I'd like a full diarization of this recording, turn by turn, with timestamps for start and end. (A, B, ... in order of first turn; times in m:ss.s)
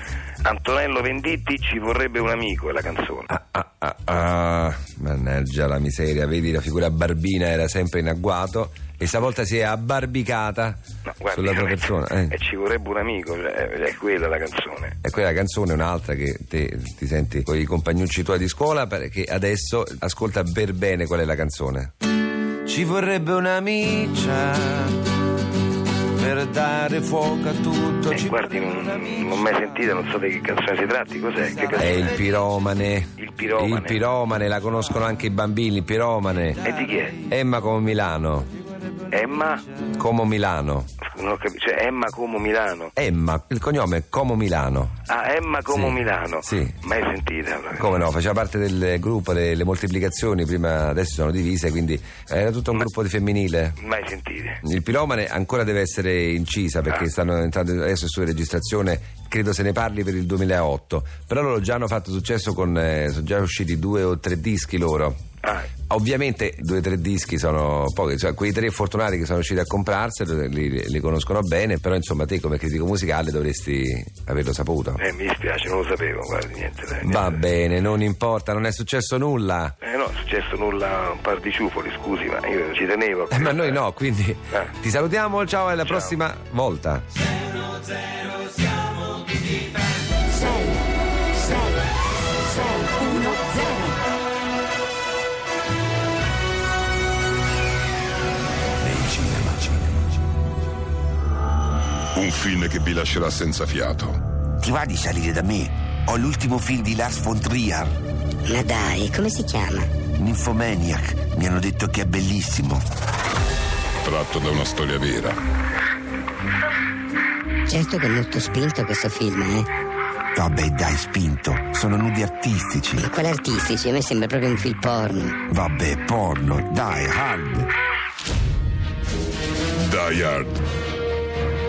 0:00.4-0:03.2 A
0:00.5-0:03.2 B
0:03.3-0:10.8 C
0:11.2-0:11.6 B
0:11.2-0:11.7 A
0:11.3-0:12.4 C
0:12.4-0:14.9 A
0:12.6-0:14.9 B
0:15.0-0:21.9 C
0:28.1-0:32.2 B
0:28.2-0:32.0 A
0:31.8-0:36.6 C
0:33.2-0:33.9 A
0:36.6-0:37.2 B
0:36.6-0:37.2 A
0:37.3-0:38.5 C
0:39.1-0:39.6 A
0:40.0-0:40.9 C
0:41.0-0:42.5 B
0:41.1-0:42.9 A
0:43.0-0:44.9 C
0:45.1-0:45.7 B
0:45.1-0:47.8 A
0:45.7-0:46.7 C
0:46.9-0:47.7 B
0:47.8-0:53.7 C
0:53.8-0:54.5 A
0:53.8-0:54.5 B
0:54.6-1:05.2 C
1:05.4-1:05.7 A
1:05.8-1:15.0 C
1:15.0-1:17.3 A
1:15.0-1:15.3 B
1:17.0-1:19.7 C
1:19.8-1:23.3 A
1:23.3-1:27.0 C
1:38.8-1:40.0 B
1:42.2-1:44.2 D
1:44.6-1:47.9 B
1:48.5-1:49.9 E
1:50.1-1:52.8 B
1:54.0-1:55.4 D
1:57.7-1:59.7 E
2:00.3-2:03.0 B
2:02.9-2:05.4 E
2:05.5-2:07.7 B
2:09.8-2:10.6 D